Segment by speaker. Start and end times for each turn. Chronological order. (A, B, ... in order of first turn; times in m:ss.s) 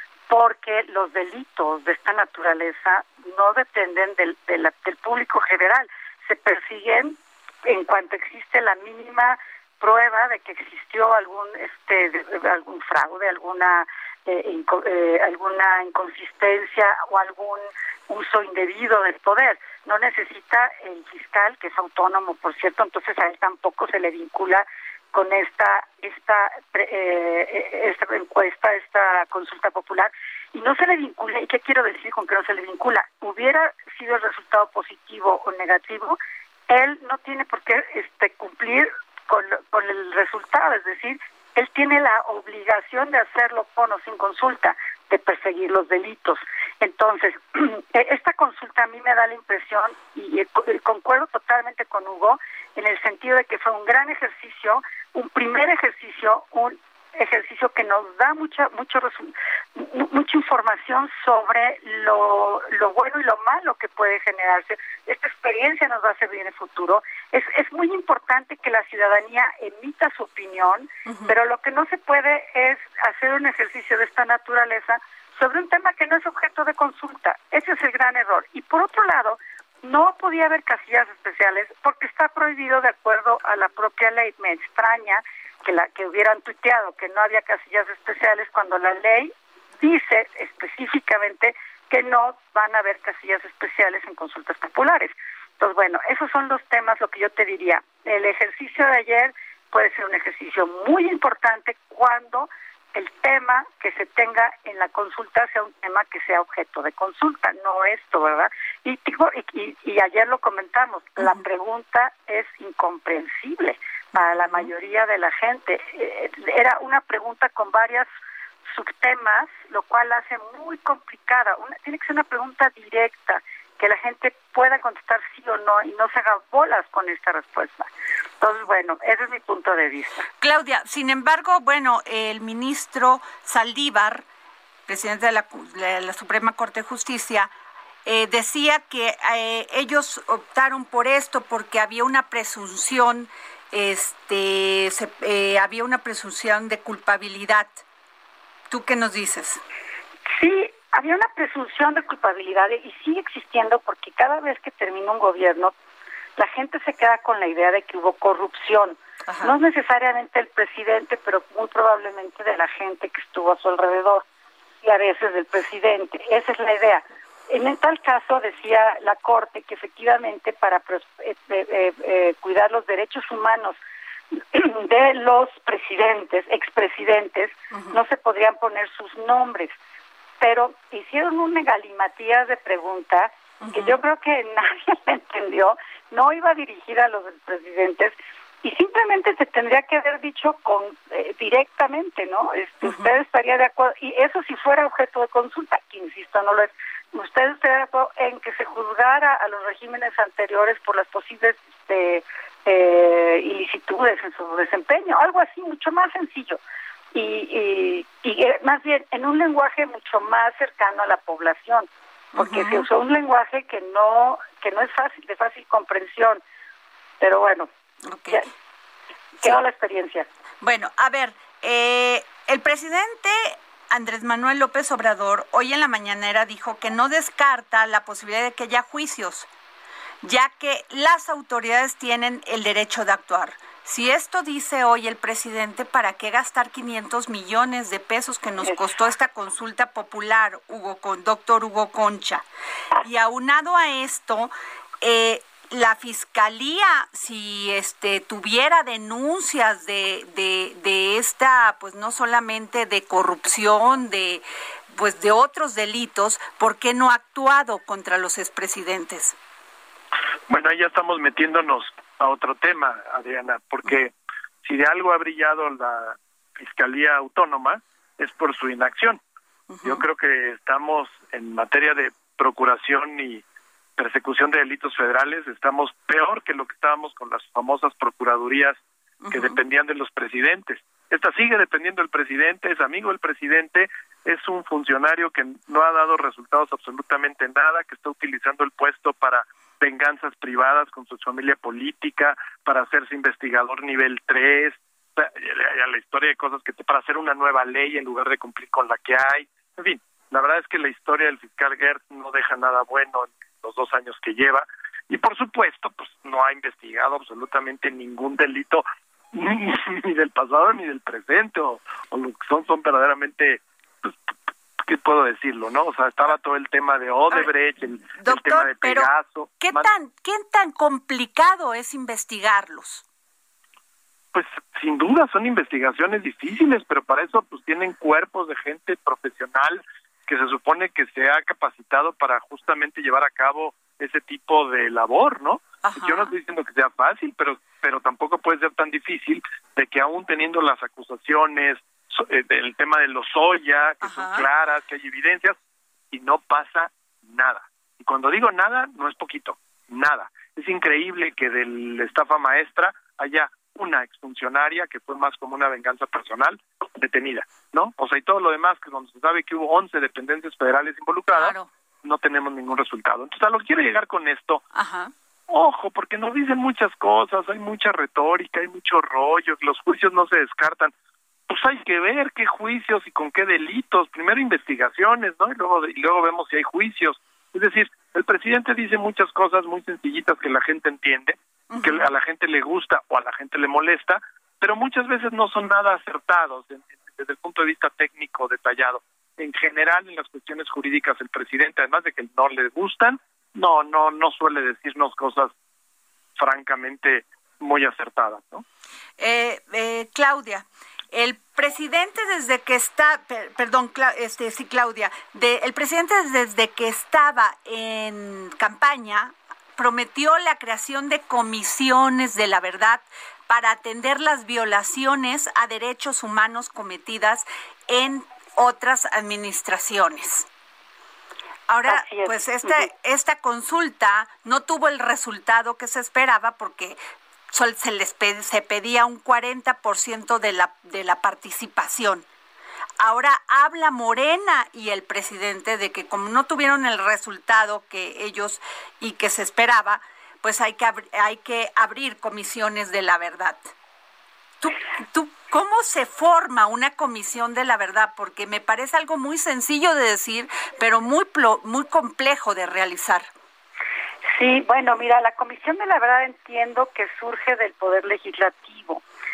0:00.3-1:58.1 A
1:11.0-1:11.3 B
1:54.1-1:54.7 B
1:58.7-2:07.9 A
2:08.4-2:10.3 A
2:10.4-2:14.2 B
2:14.9-2:17.5 B
2:18.0-2:27.8 B
2:28.7-2:29.6 B
2:30.3-2:35.7 A
2:36.4-2:44.2 A
2:39.3-2:39.5 B
2:44.8-2:53.8 A
2:54.3-2:59.8 A
2:57.7-2:58.0 B
3:00.4-3:26.6 A
3:03.6-3:04.0 B
3:12.8-3:13.2 B
3:27.1-3:36.4 A
3:32.3-3:32.8 B
3:37.2-3:37.7 A
3:38.0-3:38.5 B
3:39.4-3:40.3 A
3:40.6-3:49.5 B
3:50.2-4:02.4 B
4:03.0-4:19.4 B
4:20.5-4:24.1 C
4:24.6-4:29.2 C
4:29.7-4:30.0 B
4:29.8-4:33.4 C
4:34.0-4:38.8 C
4:39.2-4:39.6 B
4:39.3-5:14.1 C
5:14.8-5:19.9 C
5:18.2-5:19.1 B
5:19.6-5:23.0 B
5:24.3-5:45.5 C
5:35.8-5:36.3 B
5:44.0-5:44.4 B
5:46.1-6:04.6 C
6:01.3-6:01.7 B
6:04.7-6:05.1 B
6:05.5-6:10.9 C
6:11.5-6:35.5 C
6:21.7-6:22.1 B
6:36.4-6:38.6 C
6:39.2-7:00.5 B
7:01.7-7:07.0 B
7:01.8-7:02.9 A
7:07.5-7:12.2 B
7:13.0-7:23.6 B
7:24.6-7:33.3 B
7:34.3-7:39.0 A